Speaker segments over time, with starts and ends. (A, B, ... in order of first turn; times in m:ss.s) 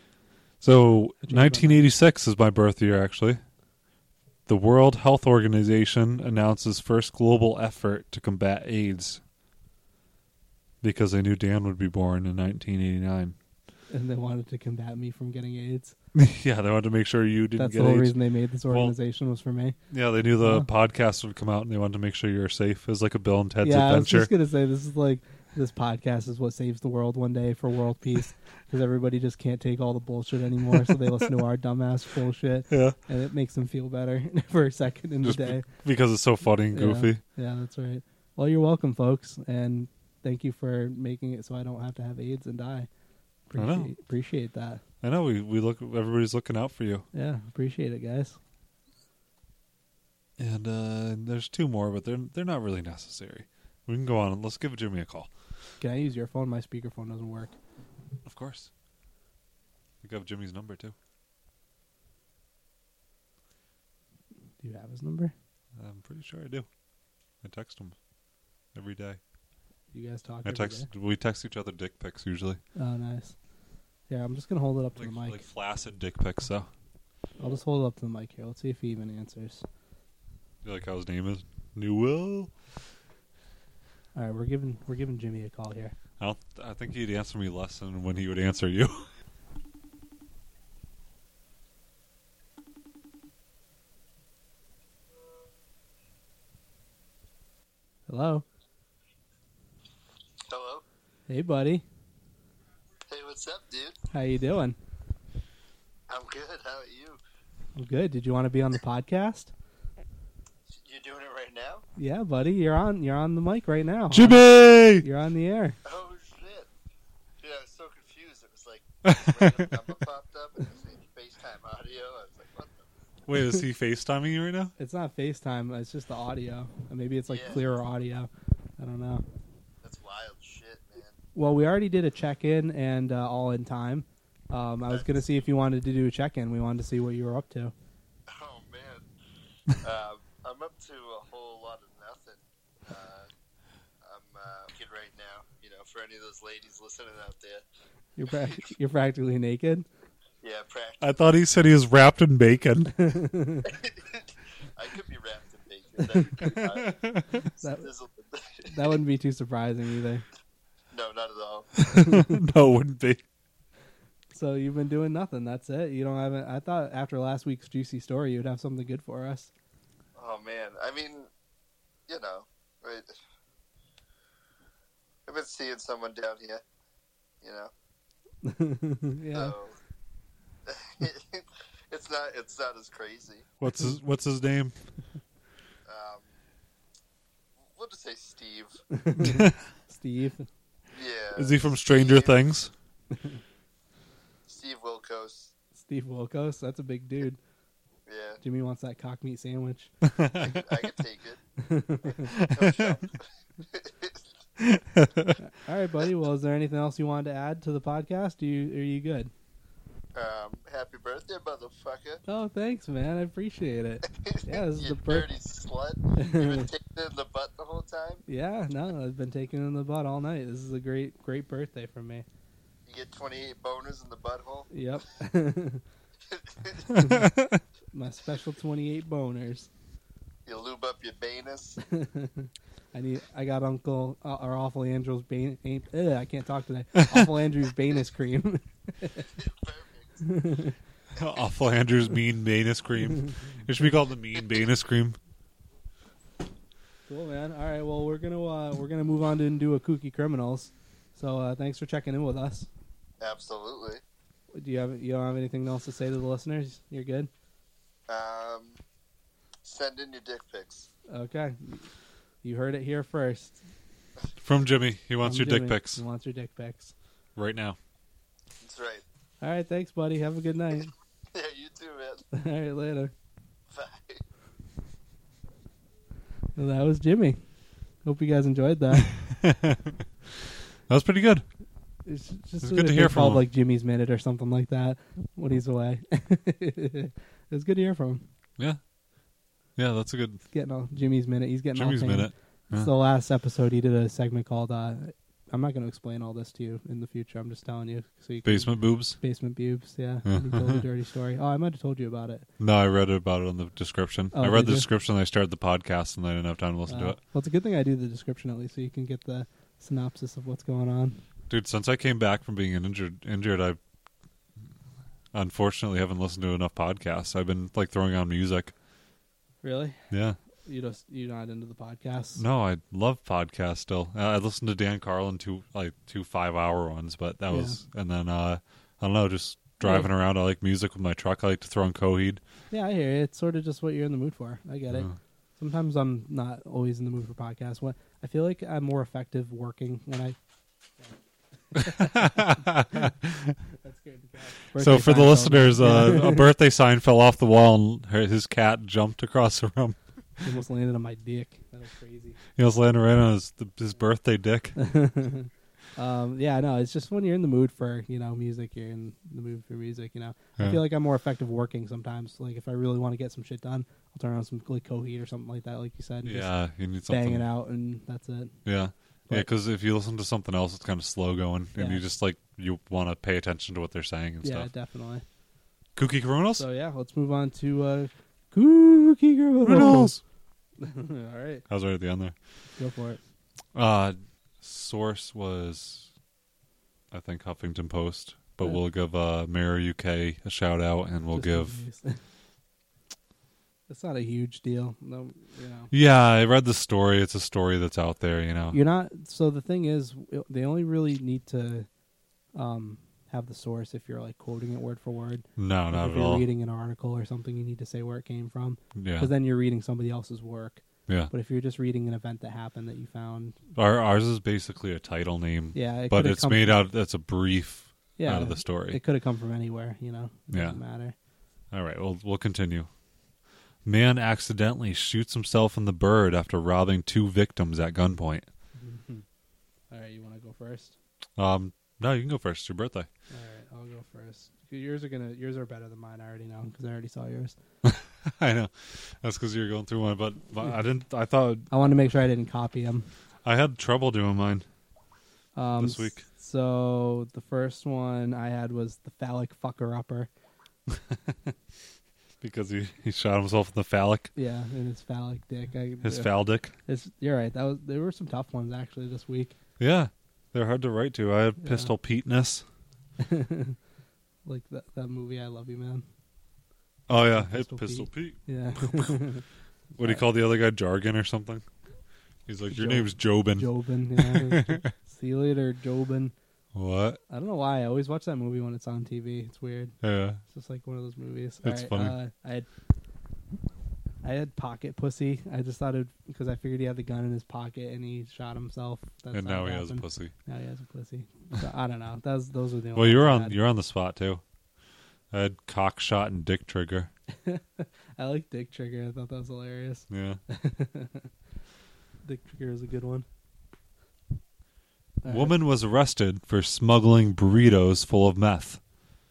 0:00.6-0:03.4 A
0:01.2-0:01.8 B
0:04.5-0:09.2 A
0:10.8-0:13.4 A
0:13.9-0:15.9 B
0:16.1-0:18.1 A
0:17.6-0:19.8 B
0:18.7-0:18.9 A
0:19.9-0:24.3 A
0:20.4-0:20.7 B
0:23.6-0:35.7 B
0:32.7-0:33.0 A
0:35.2-0:37.2 A
0:36.7-0:42.9 B
0:43.5-0:44.8 B
0:43.6-0:43.9 A
0:45.0-0:47.0 A
0:47.1-0:48.4 B
0:50.4-0:55.3 A
0:55.8-0:57.6 B
0:58.2-0:58.7 A
1:00.0-1:00.9 A
1:04.6-1:05.3 B
1:05.8-1:06.7 A
1:07.4-1:08.0 A
1:08.7-1:09.2 A
1:09.9-1:10.9 B
1:10.4-1:12.6 A
1:12.8-1:13.4 B
1:14.1-1:15.4 B
1:15.0-1:16.7 A
1:17.4-1:19.6 B
1:20.6-1:22.5 A
1:24.1-1:25.9 B
1:26.2-1:29.1 A
1:38.1-1:38.4 B
1:40.5-1:40.8 C
1:41.3-1:41.8 B
1:43.1-1:44.0 C
1:44.1-1:44.8 B
1:46.1-1:47.2 C
1:47.8-1:49.5 B
1:50.7-1:51.8 C
1:52.0-1:55.8 B
1:54.1-1:55.0 A
1:55.8-1:56.7 C
1:57.4-2:02.8 C
1:59.0-1:59.8 A
2:03.3-2:04.7 A
2:04.8-2:09.2 B
2:07.3-2:07.6 C
2:09.8-2:11.2 C
2:11.4-2:17.7 B
2:14.9-2:15.3 C
2:18.3-2:19.0 C
2:19.8-2:23.3 C
2:24.0-2:27.6 C
2:28.2-2:29.8 B
2:28.3-2:28.6 C
2:30.4-2:31.2 C
2:31.0-2:32.9 A
2:32.9-2:33.7 B
2:33.6-2:34.2 C
2:34.8-2:39.0 C
2:36.6-2:37.3 A
2:37.6-2:37.9 B
2:38.7-2:40.2 B
2:40.9-2:41.8 C
2:41.8-2:43.2 A
2:41.9-2:42.4 B
2:44.3-2:49.5 B
2:50.2-2:51.3 C
2:52.1-2:53.1 C
2:55.3-2:56.6 C
2:57.4-2:57.7 C
2:58.4-2:59.5 B
2:59.3-2:59.7 C
3:00.7-3:03.4 C
3:03.6-3:04.8 A
3:05.8-3:06.3 C
3:07.7-3:08.8 C
3:08.9-3:10.5 B
3:09.2-3:09.6 A
3:10.9-3:12.4 C
3:11.3-3:12.7 A
3:13.1-3:13.4 B
3:14.5-3:15.5 C
3:15.8-3:17.4 B
3:18.1-3:18.4 C
3:18.4-3:19.9 B
3:20.0-3:20.6 A
3:20.4-3:21.4 C
3:21.6-3:22.3 B
3:22.3-3:23.0 A
3:22.3-3:24.2 C
3:24.6-3:25.4 A
3:25.4-3:29.3 B
3:30.1-3:32.2 C
3:32.2-3:35.3 B
3:34.1-3:38.2 C
3:36.2-3:36.7 B
3:38.3-3:42.2 B
3:42.9-3:44.7 C
3:44.7-3:45.8 B
3:46.3-3:46.9 C
3:46.9-3:47.4 B
3:47.0-3:47.6 A
3:47.9-3:49.7 B
3:50.4-3:51.8 C
3:51.8-3:59.3 B
3:59.3-4:00.2 C
4:00.2-4:00.8 B
4:01.2-4:05.2 A
4:07.1-4:12.7 B
4:13.2-4:14.0 C
4:14.5-4:17.3 B
4:18.1-4:18.8 C
4:19.6-4:20.9 C
4:21.1-4:21.9 B
4:22.4-4:23.6 B
4:24.4-4:26.0 A
4:25.2-4:26.9 B
4:27.4-4:27.8 A
4:28.6-4:29.0 C
4:29.4-4:30.9 B
4:31.3-4:32.2 C
4:32.3-4:33.1 B
4:33.7-4:34.2 C
4:36.6-4:37.4 B
4:38.0-4:39.1 B
4:39.0-4:40.0 A
4:40.9-4:41.4 A
4:42.0-4:48.2 B
4:42.6-4:43.4 A
4:49.8-4:50.4 A
4:50.5-5:02.5 B
4:51.7-4:52.9 A
4:58.4-4:59.2 A
5:00.2-5:00.8 A
5:02.6-5:07.2 A
5:04.3-5:04.9 B
5:06.9-5:11.2 B
5:11.5-5:13.8 A
5:15.3-5:18.7 A
5:19.6-5:20.0 B
5:20.1-5:20.4 A
5:20.6-5:22.4 B
5:22.4-5:32.4 A
5:27.5-5:27.8 B
5:29.8-5:30.1 B
5:32.7-5:40.4 B
5:41.7-5:43.0 B
5:41.8-5:43.6 A
5:43.8-5:46.4 B
5:44.7-5:50.0 A
5:50.4-5:52.4 B
5:52.6-5:54.8 A
5:54.8-6:06.5 B
6:06.2-6:07.4 A
6:07.0-6:08.6 B
6:08.6-6:14.7 A
6:11.8-6:12.0 B
6:14.4-6:15.2 B
6:16.0-6:16.6 A
6:16.6-6:20.1 B
6:19.6-6:20.2 A
6:20.8-6:21.6 B
6:21.7-6:22.3 A
6:22.8-6:23.2 B
6:23.7-6:26.1 A
6:27.1-6:31.8 A
6:31.3-6:32.2 B
6:33.9-6:35.9 B
6:35.9-6:38.8 A
6:38.7-6:41.9 B
6:42.5-6:53.6 B
6:45.6-6:46.4 A
6:48.9-6:49.3 A
6:53.7-6:59.0 A
6:55.7-6:56.8 B
6:58.2-7:01.1 B
7:00.5-7:00.8 A
7:01.7-7:02.9 A
7:03.8-7:08.5 A
7:08.8-7:09.2 B
7:09.9-7:11.0 B
7:11.4-7:13.1 A
7:13.3-7:17.6 B
7:17.8-7:21.7 A
7:21.7-7:23.1 B
7:23.4-7:24.6 A
7:25.5-7:30.3 B
7:25.8-7:26.2 A
7:31.0-7:31.3 A
7:32.4-7:34.3 A
7:34.3-7:36.3 B
7:36.0-7:36.7 A
7:36.8-7:39.5 B
7:39.8-7:42.6 A
7:41.6-7:41.9 B
7:43.2-7:43.8 B
7:44.4-7:46.0 B
7:47.1-7:49.1 A
7:47.2-7:49.4 B
7:49.9-7:51.6 A
7:52.5-7:54.9 A
7:52.7-7:56.3 B
7:56.7-7:57.2 A
7:57.3-7:59.9 B
8:00.0-8:00.4 A
8:00.5-8:02.7 B
8:01.6-8:02.2 A
8:04.2-8:13.6 B
8:09.3-8:10.3 A
8:13.0-8:14.4 A
8:15.3-8:17.1 A
8:17.4-8:21.3 B
8:20.1-8:20.4 A
8:22.2-8:23.2 B
8:25.2-8:25.5 B
8:25.2-8:28.8 A